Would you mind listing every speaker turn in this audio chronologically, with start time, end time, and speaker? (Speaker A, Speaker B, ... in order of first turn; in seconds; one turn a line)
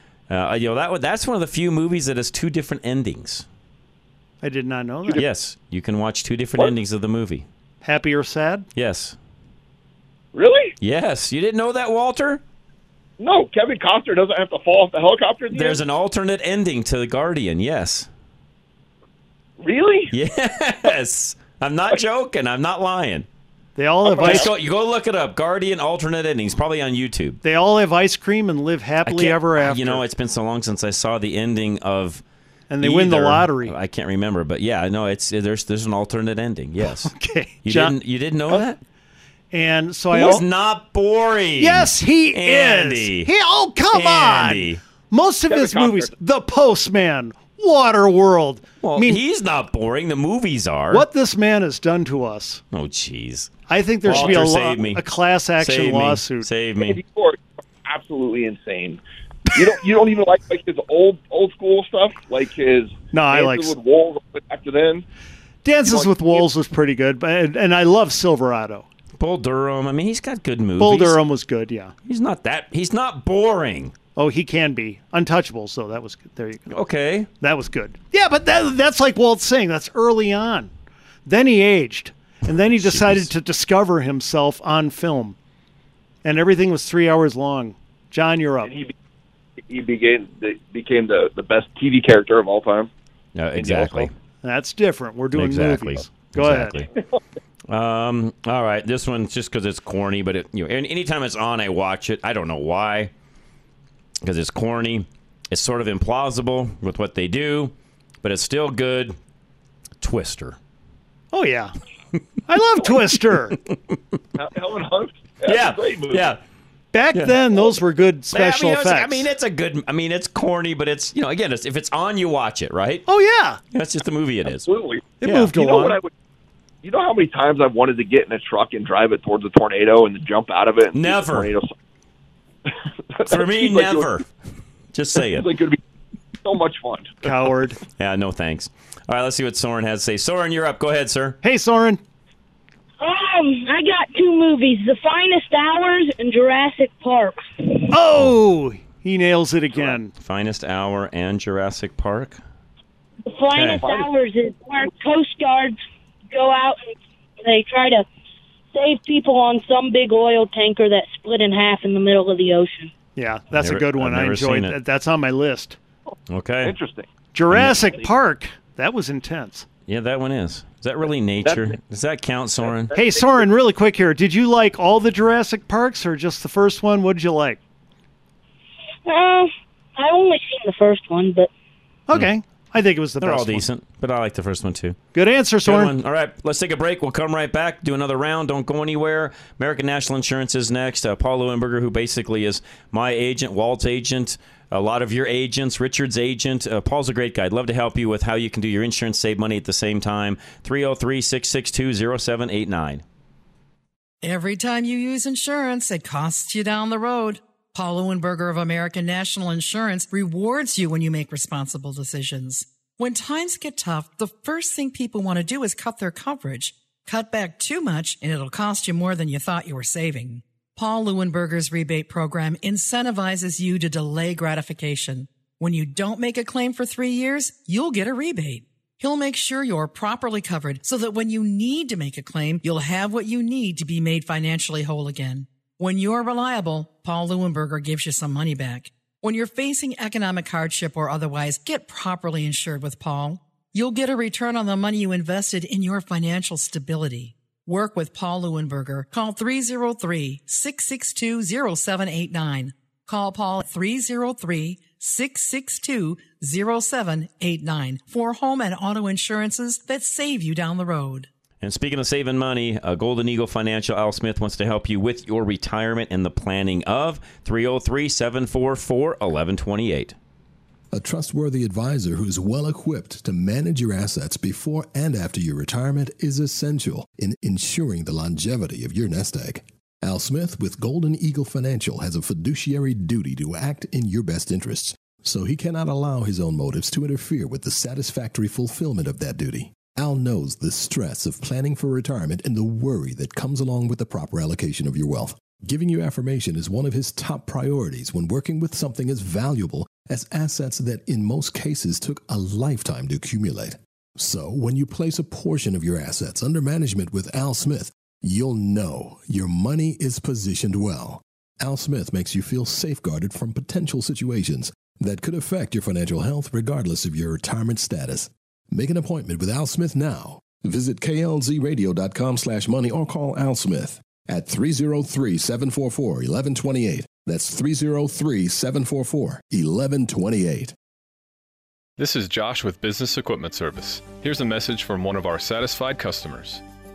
Speaker A: 0.3-3.4
Speaker B: 4.4-5.2
Speaker A: 5.2-7.5
Speaker B: 7.8-8.7
Speaker A: 8.8-9.1
Speaker C: 10.3-10.7
Speaker A: 10.8-12.4
Speaker C: 13.2-15.8
Speaker A: 15.5-18.1
Speaker C: 19.6-20.1
Speaker A: 20.1-23.2
Speaker B: 23.8-24.4
Speaker C: 24.0-24.5
Speaker A: 24.2-27.4
Speaker B: 27.4-30.0
Speaker A: 29.0-32.2
Speaker B: 32.7-33.7
Speaker A: 32.8-37.1
Speaker B: 37.0-37.9
Speaker A: 37.6-38.8
Speaker B: 39.5-40.4
Speaker A: 40.1-43.3
Speaker B: 41.6-49.2
Speaker A: 43.9-44.8
Speaker C: 45.5-46.1
Speaker A: 48.8-51.0
Speaker B: 50.9-52.6
Speaker A: 52.7-53.5
Speaker B: 53.7-56.5
Speaker A: 54.0-55.0
Speaker A: 55.6-57.0
Speaker C: 56.8-59.0
Speaker C: 59.5-65.0
Speaker B: 63.1-63.7
Speaker B: 65.6-68.8
Speaker C: 65.9-66.4
Speaker A: 69.2-71.2
Speaker B: 70.8-71.9
Speaker A: 72.0-73.9
Speaker B: 74.2-76.7
Speaker A: 76.7-77.3
Speaker B: 77.4-80.7
Speaker B: 81.2-85.3
Speaker A: 82.8-83.3
Speaker B: 86.2-88.7
Speaker C: 88.6-88.9
Speaker C: 89.6-92.9
Speaker A: 93.3-94.1
Speaker C: 93.5-94.1
Speaker B: 94.4-96.8
Speaker A: 95.3-96.9
Speaker A: 97.7-103.1
Speaker A: 104.2-109.2
Speaker A: 110.0-110.6
Speaker B: 111.3-111.7
Speaker B: 112.5-113.6
Speaker C: 114.3-116.3
Speaker A: 115.5-116.4
Speaker B: 116.9-119.3
Speaker A: 118.3-123.0
Speaker B: 123.1-123.6
Speaker A: 123.7-124.7
Speaker C: 124.6-126.1
Speaker B: 125.2-126.0
Speaker A: 125.2-125.5
Speaker C: 126.8-131.7
Speaker A: 130.9-131.5
Speaker C: 133.1-134.1
Speaker A: 133.3-134.2
Speaker A: 134.9-135.5
Speaker C: 135.2-135.8
Speaker C: 136.4-137.2
Speaker B: 137.2-137.8
Speaker A: 138.0-141.4
Speaker B: 141.4-142.0
Speaker D: 143.0-147.4
Speaker B: 147.9-150.1
Speaker A: 150.2-152.4
Speaker D: 153.3-155.8
Speaker A: 153.5-153.8
Speaker C: 153.8-154.1
Speaker D: 156.3-156.9
Speaker D: 157.4-158.0
Speaker D: 158.7-162.9
Speaker B: 163.2-165.8
Speaker A: 163.6-164.7
Speaker A: 166.3-166.7
Speaker C: 166.6-167.1
Speaker B: 167.3-169.6
Speaker A: 169.9-172.9
Speaker C: 171.4-171.7
Speaker B: 172.9-177.6
Speaker D: 179.1-181.5
Speaker B: 182.1-183.7
Speaker A: 183.2-185.0
Speaker B: 185.1-185.9
Speaker A: 185.6-203.0
Speaker E: 204.2-261.3
Speaker A: 261.6-270.1
Speaker F: 270.9-330.7
Speaker G: 332.0-336.6